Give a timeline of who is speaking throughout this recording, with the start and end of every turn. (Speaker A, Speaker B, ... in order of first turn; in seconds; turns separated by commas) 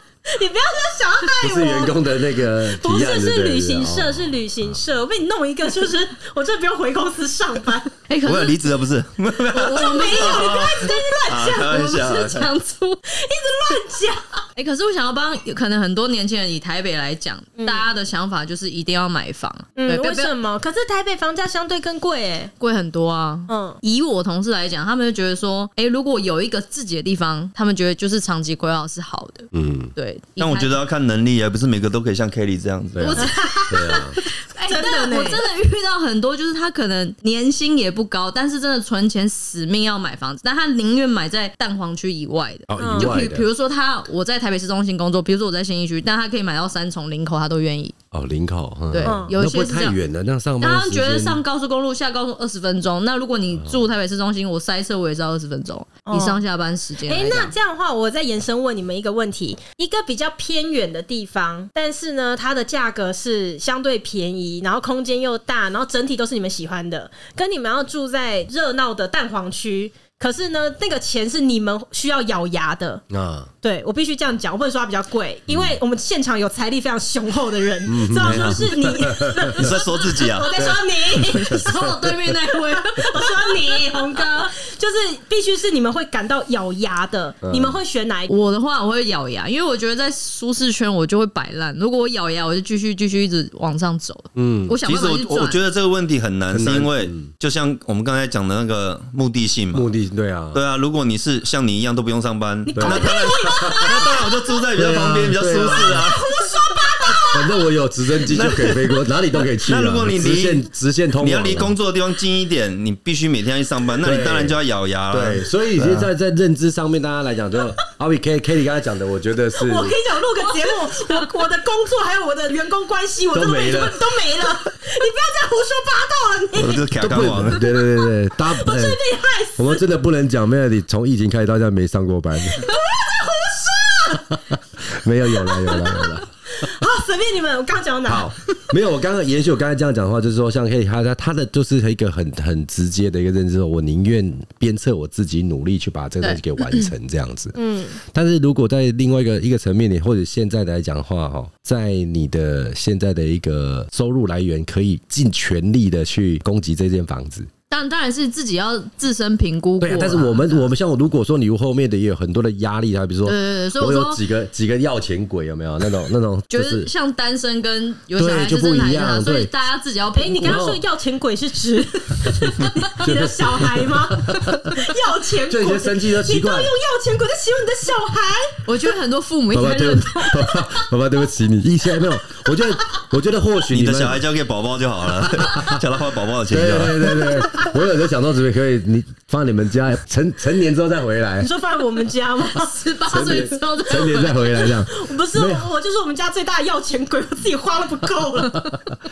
Speaker A: 0.3-2.1, Speaker B: 1.4-4.4, Speaker A: 2.6-7.9, Speaker C: 8.1-8.6, Speaker D: 8.2-12.5, Speaker C: 9.5-10.8, Speaker A: 9.7-11.8, Speaker C: 11.5-13.0, Speaker A: 13.1-14.4, Speaker C: 14.6-20.3, Speaker A: 17.6-17.9, Speaker A: 19.8-22.5, Speaker C: 22.6-30.8, Speaker A: 23.5-23.8, Speaker B: 29.5-29.9, Speaker D: 30.4-33.3, Speaker B: 32.9-34.2, Speaker C: 33.0-48.0, Speaker A: 33.2-35.4, Speaker B: 42.7-43.5, Speaker A: 42.8-43.2, Speaker B: 48.1-51.4, Speaker C: 48.9-50.0, Speaker A: 49.0-49.3, Speaker C: 50.6-57.5, Speaker A: 56.1-56.4, Speaker A: 57.0-73.0, Speaker B: 73.1-73.5, Speaker A: 73.6-81.8, Speaker B: 77.9-79.7, Speaker D: 78.2-78.6, Speaker D: 79.5-80.6, Speaker B: 80.6-80.8, Speaker C: 81.1-84.4, Speaker B: 81.5-81.9, Speaker A: 82.7-88.3, Speaker B: 87.4-87.8, Speaker C: 88.3-95.6, Speaker B: 94.4-94.8, Speaker D: 94.8-99.9, Speaker B: 96.5-97.3, Speaker B: 99.7-100.6, Speaker D: 100.5-106.5, Speaker A: 102.7-104.5, Speaker B: 102.8-104.2, Speaker B: 104.7-106.1, Speaker A: 106.1-107.6, Speaker B: 107.3-111.8, Speaker D: 108.3-110.7, Speaker D: 111.2-116.1, Speaker B: 114.0-114.6, Speaker B: 115.1-120.0, Speaker A: 119.6-129.8, Speaker B: 123.3-124.1, Speaker D: 126.6-127.6, Speaker B: 127.0-129.0, Speaker B: 129.6-132.7, Speaker A: 132.5-134.4, Speaker B: 134.5-136.3, Speaker A: 135.3-138.3, Speaker B: 138.1-157.5, Speaker C: 146.2-146.9, Speaker A: 147.6-148.0, Speaker C: 157.7-160.7, Speaker B: 159.8-166.9, Speaker C: 163.2-164.2, Speaker C: 166.5-170.6, Speaker B: 168.2-169.5, Speaker A: 170.2-178.7, Speaker B: 170.4-170.8, Speaker B: 173.0-174.9, Speaker B: 175.5-176.7, Speaker C: 178.7-180.8, Speaker B: 179.5-184.2, Speaker D: 183.7-187.3, Speaker B: 185.2-185.8, Speaker B: 186.5-191.5, Speaker A: 191.4-192.8, Speaker C: 192.5-194.8, Speaker B: 193.1-195.7, Speaker A: 194.9-198.8, Speaker B: 198.4-198.9